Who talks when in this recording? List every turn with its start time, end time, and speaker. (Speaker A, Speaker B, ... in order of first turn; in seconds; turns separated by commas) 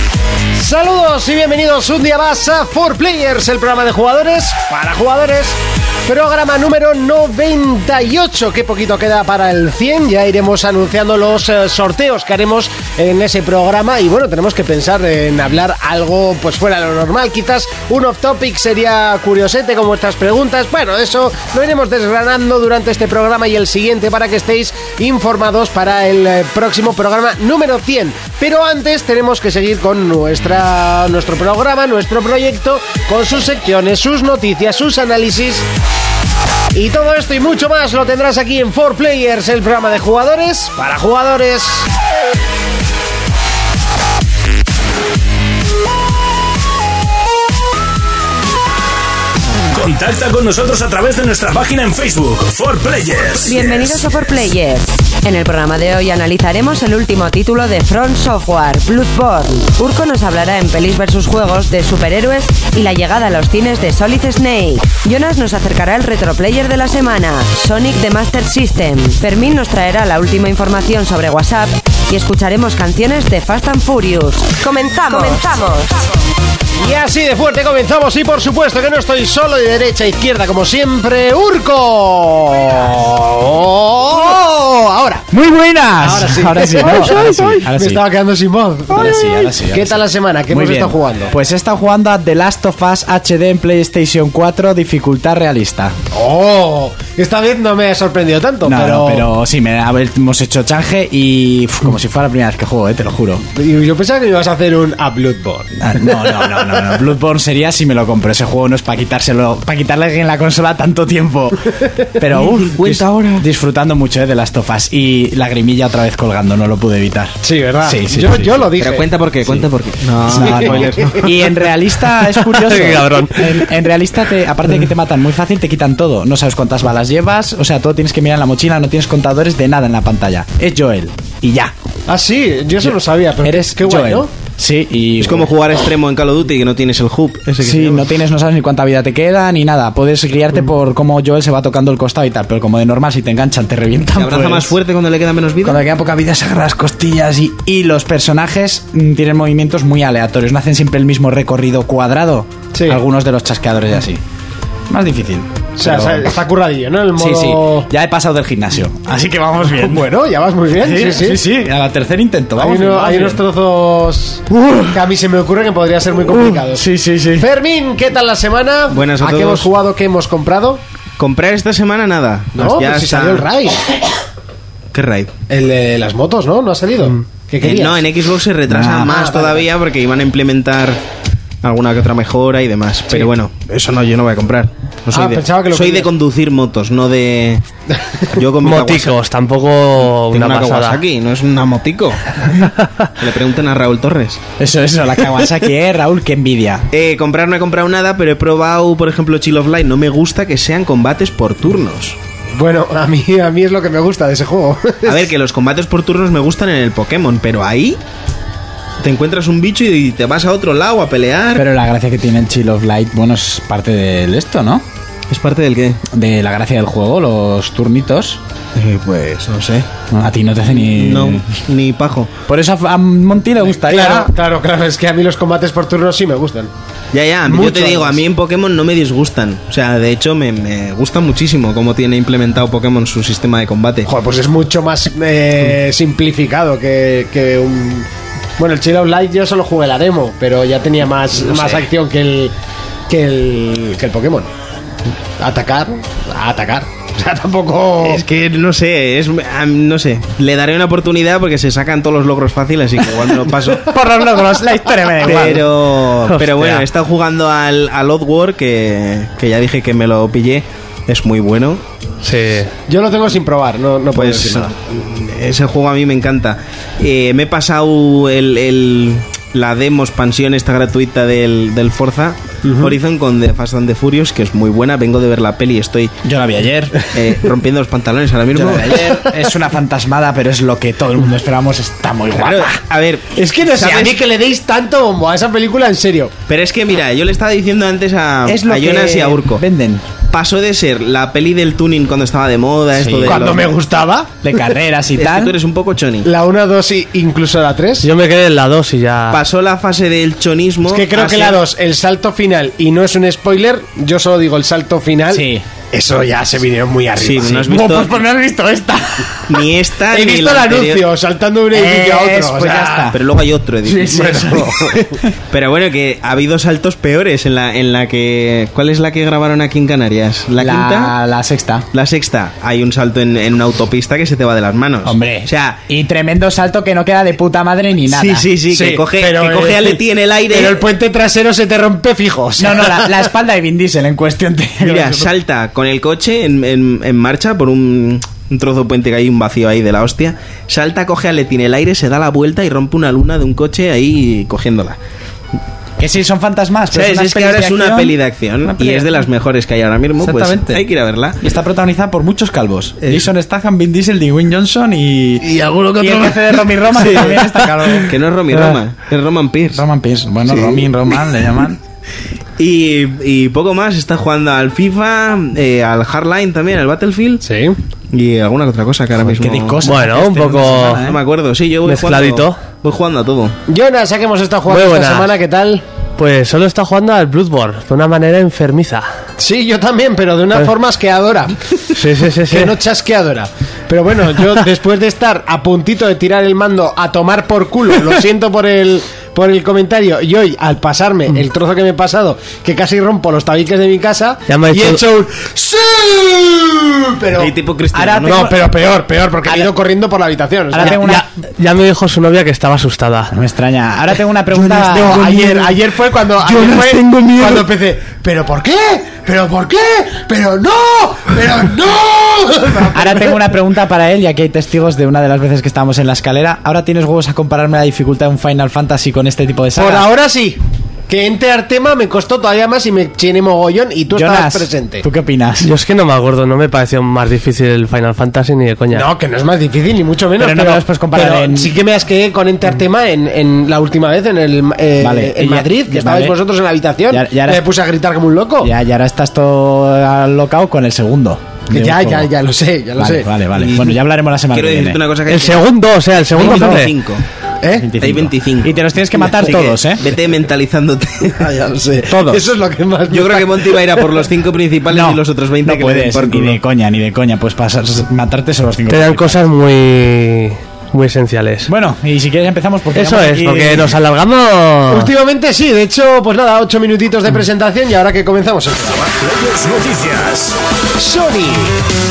Speaker A: 0.5-35.7, Speaker A: 36.7-41.9, Speaker B: 49.7-54.0, Speaker C: 53.4-75.9, Speaker A: 76.8-85.3, Speaker D: 85.3-88.0, Speaker A: 86.0-91.3, Speaker D: 88.9-96.0, Speaker A: 96.1-99.3, Speaker D: 98.6-103.4, Speaker A: 103.5-105.7, Speaker D: 105.8-118.7, Speaker E: 112.3-113.4, Speaker A: 117.4-119.0, Speaker E: 118.8-121.5, Speaker D: 120.2-131.7, Speaker A: 120.4-121.2, Speaker F: 122.5-123.5, Speaker A: 132.1-134.3, Speaker D: 132.8-135.5, Speaker E: 135.2-138.1, Speaker D: 137.6-144.7, Speaker E: 144.1-145.8, Speaker D: 145.6-154.2, Speaker A: 152.7-153.0, Speaker D: 154.9-156.3, Speaker A: 155.8-157.9, Speaker D: 157.2-160.1, Speaker A: 159.8-161.4, Speaker D: 160.8-163.4, Speaker A: 162.6-170.8, Speaker D: 166.3-167.5, Speaker E: 168.9-169.7, Speaker E: 171.2-173.5, Speaker A: 172.6-173.8, Speaker E: 174.9-175.3, Speaker A: 175.5-178.1, Speaker E: 177.6-181.0, Speaker D: 178.7-179.1, Speaker A: 179.0-179.7, Speaker E: 181.6-187.6, Speaker A: 185.1-186.1, Speaker E: 188.3-189.2, Speaker F: 188.6-191.0, Speaker E: 190.0-192.4, Speaker E: 193.2-194.4, Speaker D: 194.6-196.8, Speaker E: 196.9-202.2, Speaker A: 202.6-205.3, Speaker E: 205.0-208.0, Speaker E: 209.0-211.6, Speaker D: 211.5-214.8, Speaker E: 215.3-216.0, Speaker D: 216.1-218.4, Speaker E: 218.7-219.9, Speaker D: 220.1-221.4, Speaker E: 220.7-222.3, Speaker D: 222.5-224.3, Speaker A: 223.8-226.7, Speaker E: 227.1-234.1, Speaker A: 227.5-228.2, Speaker A: 234.1-242.5, Speaker E: 241.4-241.8, Speaker A: 243.1-244.5, Speaker A: 245.4-248.2, Speaker E: 248.0-253.9, Speaker D: 253.7-255.7, Speaker E: 255.2-261.8, Speaker F: 256.3-256.8, Speaker F: 262.2-262.7, Speaker A: 262.9-264.7, Speaker E: 264.1-276.1, Speaker A: 272.6-272.9, Speaker D: 276.2-277.0, Speaker E: 277.1-279.2, Speaker D: 278.5-282.8, Speaker E: 282.3-284.2, Speaker A: 283.4-286.3, Speaker E: 286.5-289.6, Speaker D: 288.4-290.1, Speaker E: 290.3-293.7, Speaker D: 292.9-293.7, Speaker A: 293.2-294.3, Speaker D: 294.4-295.6, Speaker E: 295.1-296.3, Speaker A: 296.2-298.1, Speaker F: 298.0-299.4, Speaker E: 299.3-301.6, Speaker A: 300.9-307.7, Speaker D: 305.3-305.6, Speaker E: 307.1-308.1, Speaker D: 307.6-309.6, Speaker E: 309.5-311.1, Speaker A: 310.1-313.1, Speaker D: 311.7-313.2, Speaker E: 313.1-314.4, Speaker D: 313.8-315.0, Speaker A: 314.0-315.1, Speaker E: 315.5-321.1, Speaker D: 320.6-321.9, Speaker E: 321.9-325.8, Speaker D: 325.0-328.5, Speaker E: 328.1-330.8, Speaker A: 328.7-333.3, Speaker D: 332.6-335.3, Speaker E: 334.8-345.0, Speaker D: 346.0-349.1, Speaker E: 346.9-351.4, Speaker D: 350.2-350.8, Speaker D: 351.4-358.8, Speaker E: 353.0-353.2, Speaker E: 355.5-357.4, Speaker E: 358.0-359.8, Speaker D: 359.7-361.8, Speaker E: 362.6-367.4, Speaker A: 367.4-367.8, Speaker E: 368.1-369.8, Speaker D: 369.2-371.2, Speaker F: 369.8-371.0, Speaker E: 370.8-373.6, Speaker F: 371.9-372.6, Speaker A: 373.7-375.8, Speaker F: 374.7-375.3, Speaker F: 376.2-379.1, Speaker A: 379.4-381.8, Speaker F: 381.9-382.7, Speaker A: 382.4-397.5, Speaker F: 394.5-395.0, Speaker E: 397.4-398.5, Speaker D: 397.9-398.7, Speaker A: 398.2-401.0, Speaker D: 399.4-399.7, Speaker D: 400.7-401.2, Speaker F: 400.8-403.3, Speaker D: 403.3-405.6, Speaker A: 404.5-413.6, Speaker F: 405.2-405.6, Speaker F: 406.4-407.6, Speaker D: 412.9-420.1, Speaker A: 419.8-425.0, Speaker D: 424.1-425.7, Speaker F: 425.6-429.1, Speaker A: 428.9-438.7, Speaker D: 430.4-431.8, Speaker D: 435.0-436.4, Speaker D: 437.1-437.6, Speaker D: 438.6-442.3, Speaker A: 441.7-443.3, Speaker D: 443.0-445.0, Speaker E: 443.6-443.9, Speaker E: 444.5-445.7, Speaker F: 445.3-446.9, Speaker E: 446.3-447.2, Speaker D: 446.4-446.8, Speaker A: 447.6-447.9, Speaker D: 447.8-450.0, Speaker E: 448.0-448.8, Speaker E: 449.3-451.6, Speaker A: 451.4-454.0, Speaker F: 452.1-452.4, Speaker E: 453.1-456.6, Speaker D: 454.9-459.4, Speaker F: 458.9-461.7, Speaker D: 461.7-463.9, Speaker F: 462.9-465.1, Speaker A: 464.9-469.1, Speaker B: 469.2-470.6, Speaker A: 471.0-471.7